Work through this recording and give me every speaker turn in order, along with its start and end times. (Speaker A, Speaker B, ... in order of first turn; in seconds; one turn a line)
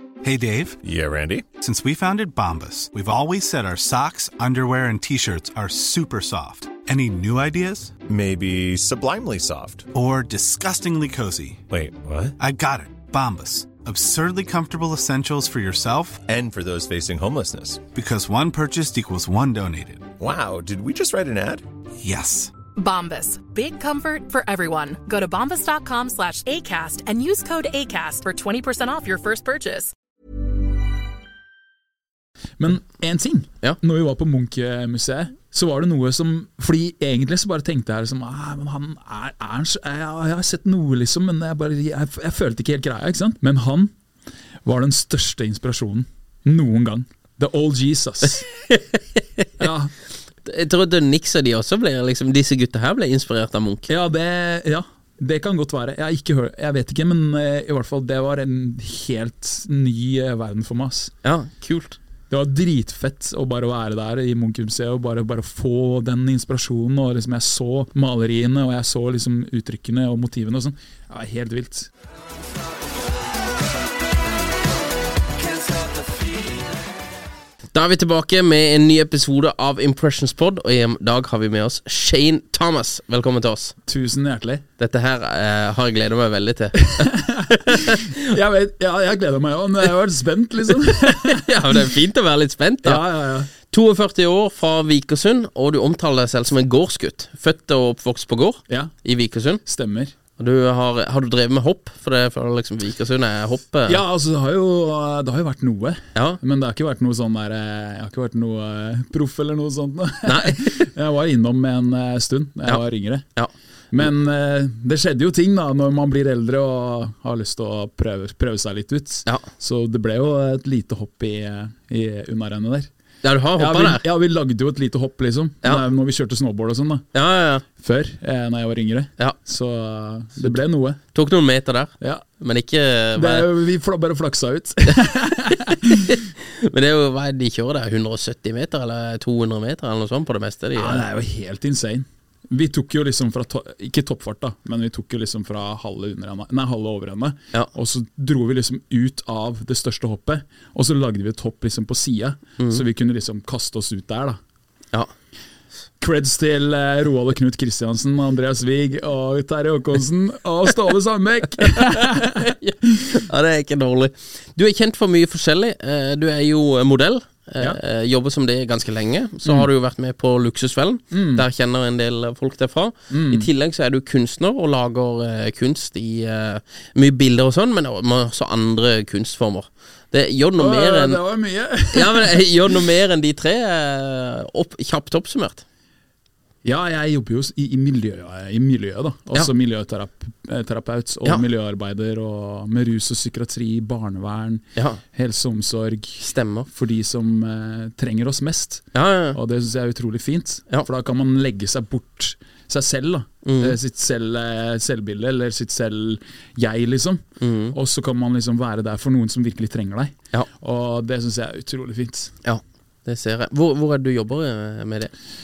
Speaker A: 0.2-0.8
Speaker B: 0.8-1.5
Speaker A: 1.5-7.9
Speaker B: 8.1-9.9
Speaker A: 9.9-11.7
Speaker B: 11.7-12.4
Speaker A: 12.4-16.2
Speaker B: 16.3-17.8
Speaker A: 17.9-20.1
Speaker B: 20.2-21.6
Speaker A: 22.0-22.5
Speaker C: 22.8-29.9
Speaker D: 32.6-43.9
Speaker D: 44.6-48.5
Speaker E: 48.7-49.5
Speaker D: 49.6-49.9
Speaker E: 50.5-53.9
Speaker D: 53.9-61.1
Speaker E: 61.2-62.0
Speaker D: 62.3-71.9
Speaker E: 77.7-83.7
Speaker D: 83.9-84.7
Speaker E: 84.8-88.2
Speaker D: 86.8-91.8
Speaker E: 90.7-93.0
Speaker D: 92.8-93.5
Speaker E: 93.6-99.6
Speaker D: 98.7-98.9
Speaker D: 99.6-100.1
Speaker E: 100.4-104.0
Speaker D: 103.9-113.2
Speaker E: 110.2-110.8
Speaker E: 113.3-114.1
Speaker D: 113.9-122.9
Speaker E: 123.2-124.0
Speaker D: 123.6-127.1
Speaker E: 127.1-127.7
Speaker D: 127.8-131.0
Speaker E: 131.1-133.5
Speaker D: 133.2-136.1
Speaker E: 135.5-141.0
Speaker D: 140.8-154.4
Speaker D: 156.0-163.0
Speaker E: 161.7-181.2
Speaker D: 171.1-171.5
Speaker D: 173.1-173.5
Speaker D: 180.6-182.5
Speaker E: 181.9-185.6
Speaker D: 186.7-212.3
Speaker E: 194.8-195.0
Speaker E: 196.2-196.7
Speaker E: 198.9-199.4
Speaker E: 203.4-203.8
Speaker E: 207.4-207.7
Speaker E: 212.4-215.1